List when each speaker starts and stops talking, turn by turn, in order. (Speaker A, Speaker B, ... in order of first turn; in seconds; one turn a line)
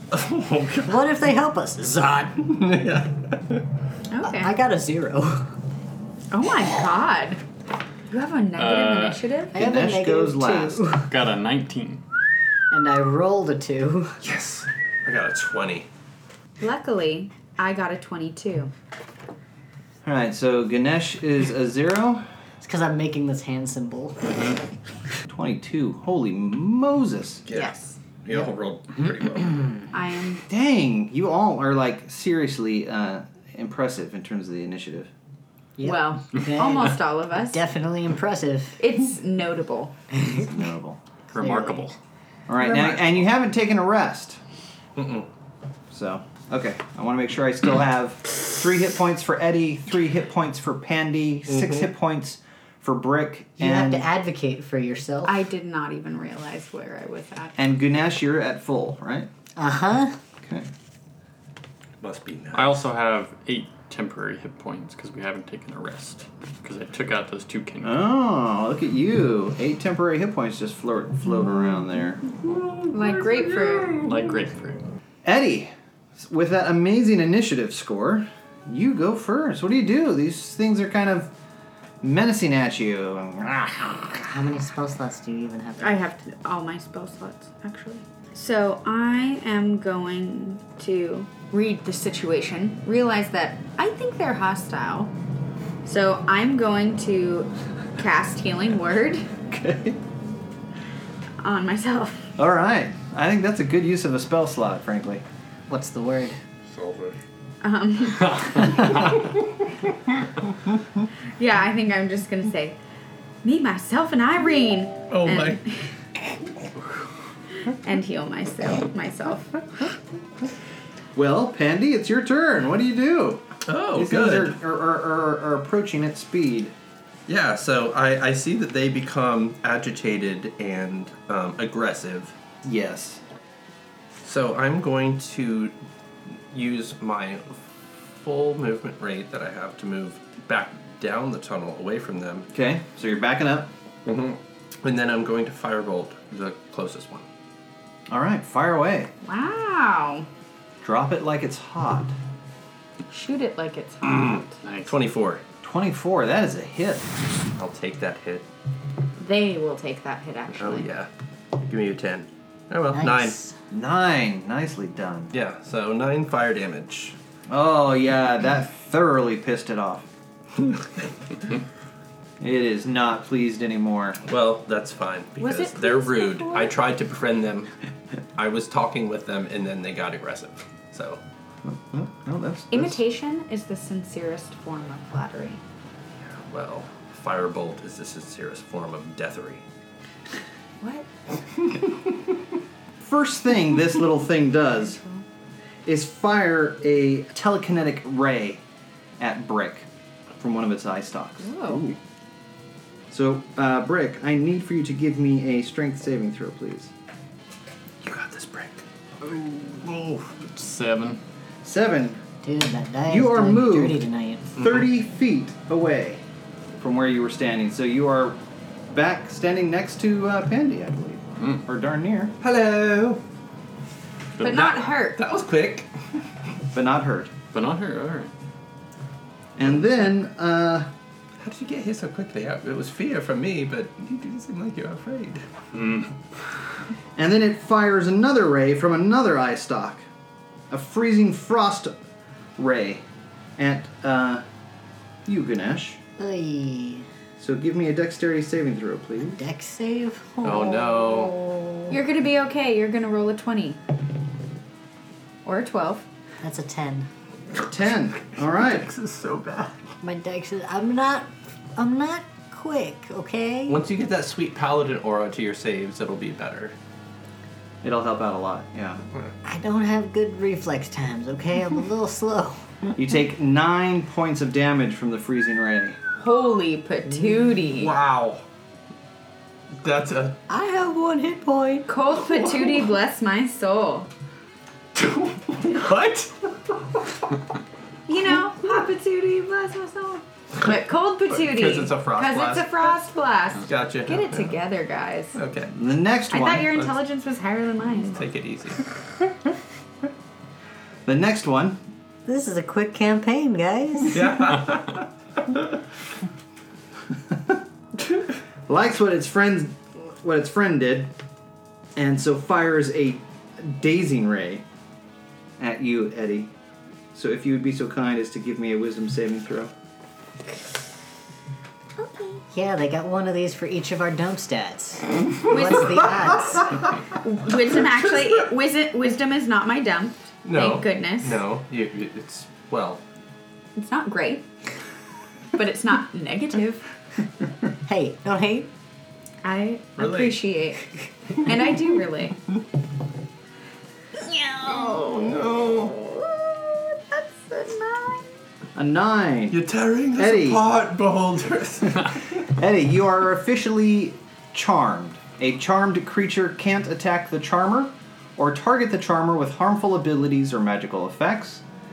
Speaker A: 0.1-1.0
Speaker B: 0.8-2.4
Speaker A: 2.4-3.6
Speaker C: 4.1-4.5
Speaker B: 4.2-5.5
Speaker C: 6.3-7.4
Speaker C: 8.1-9.5
Speaker D: 8.6-9.2
Speaker B: 9.5-11.1
Speaker E: 9.5-11.0
Speaker D: 11.1-12.0
Speaker B: 12.7-14.2
Speaker A: 14.2-15.9
Speaker C: 16.6-18.7
Speaker E: 20.0-22.2
Speaker B: 22.6-24.6
Speaker E: 25.3-27.4
Speaker A: 27.4-29.8
Speaker C: 27.5-27.9
Speaker C: 29.9-30.4
Speaker E: 30.5-35.1
Speaker B: 35.8-38.8
Speaker C: 35.8-37.6
Speaker C: 38.8-39.9
Speaker B: 40.2-40.5
Speaker E: 40.4-41.0
Speaker D: 41.3-42.0
Speaker B: 41.3-41.9
Speaker E: 42.5-44.4
Speaker A: 45.0-45.3
Speaker E: 45.9-54.1
Speaker A: 51.5-51.9
Speaker B: 53.6-55.4
Speaker C: 55.2-57.5
Speaker E: 57.6-59.3
Speaker B: 59.6-60.2
Speaker E: 60.4-60.7
Speaker A: 62.0-62.9
Speaker D: 62.5-68.0
Speaker E: 67.8-72.2
Speaker A: 72.4-74.2
Speaker C: 72.9-74.0
Speaker D: 74.0-74.8
Speaker E: 75.2-81.3
Speaker E: 82.0-84.3
Speaker B: 84.2-86.0
Speaker C: 85.8-95.1
Speaker C: 95.8-99.3
Speaker E: 99.5-100.0
Speaker C: 101.4-102.3
Speaker E: 102.4-105.2
Speaker B: 105.7-106.4
Speaker D: 106.7-107.1
Speaker C: 107.6-109.1
Speaker D: 108.3-108.8
Speaker C: 111.4-112.8
Speaker C: 113.4-115.9
Speaker A: 115.1-115.6
Speaker C: 117.6-119.6
Speaker E: 121.1-126.7
Speaker A: 123.6-124.5
Speaker A: 127.3-132.3
Speaker E: 132.6-133.2
Speaker A: 134.2-135.8
Speaker A: 136.3-142.5
Speaker E: 142.5-143.7
Speaker A: 144.1-147.3
Speaker E: 148.1-149.1
Speaker C: 149.2-150.3
Speaker E: 150.8-152.1
Speaker C: 153.1-154.6
Speaker A: 154.0-155.4
Speaker D: 154.6-155.0
Speaker E: 155.6-157.1
Speaker A: 157.6-158.5
Speaker C: 159.2-160.9
Speaker A: 160.6-161.1
Speaker A: 161.6-163.4
Speaker B: 162.9-163.5
Speaker E: 163.7-165.3
Speaker A: 165.3-167.2
Speaker E: 167.5-170.1
Speaker E: 172.4-174.2
Speaker A: 174.2-177.7
Speaker C: 175.4-176.7
Speaker A: 178.4-181.2
Speaker E: 181.6-183.0
Speaker C: 182.7-185.6
Speaker A: 186.2-189.6
Speaker C: 190.8-191.1
Speaker E: 193.0-195.0
Speaker C: 194.9-195.2
Speaker E: 195.8-198.6
Speaker E: 199.2-199.9
Speaker E: 200.4-202.0
Speaker C: 201.4-201.9
Speaker E: 203.1-206.9
Speaker A: 208.0-208.8
Speaker D: 209.3-211.2
Speaker E: 211.6-212.2
Speaker B: 212.4-214.5
Speaker E: 213.1-214.0
Speaker E: 214.6-216.2
Speaker E: 216.8-218.4
Speaker E: 218.9-222.3
Speaker A: 222.4-223.2
Speaker D: 224.4-224.7
Speaker C: 224.4-225.2
Speaker A: 224.4-225.9
Speaker E: 226.7-227.3
Speaker D: 227.5-228.3
Speaker E: 229.6-230.9
Speaker A: 231.4-235.4
Speaker D: 235.7-236.1
Speaker E: 237.2-240.1
Speaker E: 240.7-241.9
Speaker E: 242.6-243.0
Speaker E: 243.6-244.4
Speaker E: 245.2-246.0
Speaker B: 246.2-247.1
Speaker E: 247.4-249.4
Speaker B: 249.2-252.0
Speaker A: 250.4-251.3
Speaker C: 251.9-253.8
Speaker C: 255.4-256.1
Speaker B: 256.4-257.1
Speaker E: 257.6-258.9
Speaker A: 258.4-259.8
Speaker B: 260.0-263.8
Speaker A: 263.7-266.8
Speaker E: 267.8-269.0
Speaker B: 269.4-272.7
Speaker E: 272.9-276.0
Speaker C: 276.2-277.9
Speaker A: 277.6-278.4
Speaker A: 279.8-280.4
Speaker B: 280.5-281.9
Speaker C: 281.9-284.1
Speaker A: 284.9-286.3
Speaker C: 288.1-295.4
Speaker A: 291.3-292.8
Speaker A: 293.6-294.5
Speaker A: 295.3-295.7
Speaker E: 295.7-296.8
Speaker C: 296.3-298.2
Speaker A: 298.1-298.8
Speaker E: 301.1-301.8
Speaker B: 302.2-304.3
Speaker A: 304.1-305.6
Speaker E: 307.3-307.6
Speaker E: 308.7-311.1
Speaker E: 311.9-314.6
Speaker E: 315.6-316.5
Speaker E: 317.1-319.7
Speaker C: 322.0-322.4
Speaker B: 322.5-326.7
Speaker C: 325.5-331.4
Speaker A: 330.4-333.0
Speaker C: 333.8-334.5
Speaker C: 335.6-336.9
Speaker B: 337.9-338.7
Speaker C: 339.4-342.4
Speaker A: 340.0-340.4
Speaker C: 344.2-345.2
Speaker A: 344.6-346.1
Speaker C: 346.0-348.2
Speaker E: 348.7-349.6
Speaker A: 349.5-352.4
Speaker E: 350.1-350.6
Speaker E: 352.4-361.6